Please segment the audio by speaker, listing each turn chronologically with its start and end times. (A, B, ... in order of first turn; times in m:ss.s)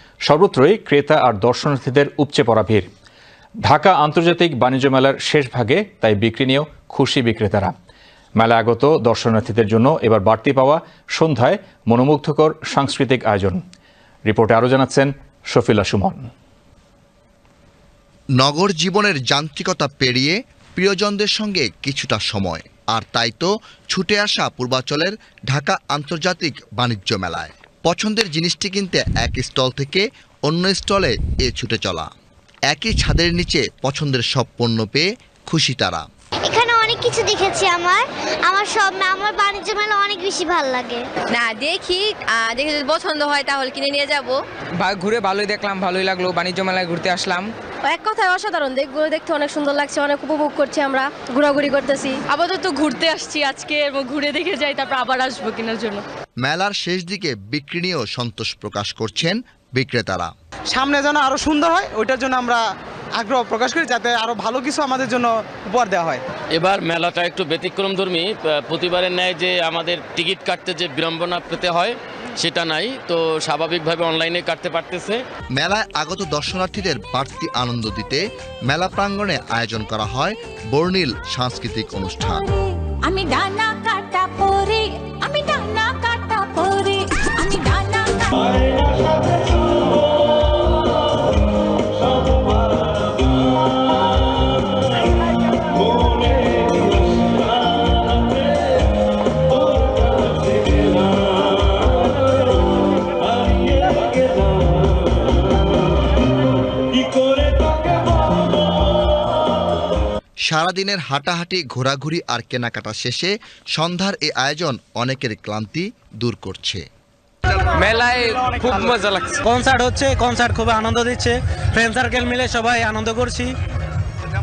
0:00.2-0:02.9 A
0:03.6-0:07.7 A
0:08.4-0:13.6 A
0:14.3-0:16.3 A
0:18.4-0:32.1 B
0:32.7-0:36.0 B
0:36.4-0:41.1 C
0:41.3-0:44.4 D
0:44.8-0:47.5 E
0:47.9-0:52.2 F
0:52.3-0:56.0 G
0:56.4-1:00.3 B
1:00.7-1:02.6 H
1:03.2-1:06.2 H
1:06.5-1:15.2 I
1:15.6-1:22.5 B
1:23.0-1:28.5 J
1:50.5-1:56.8 B
1:59.4-2:03.5 K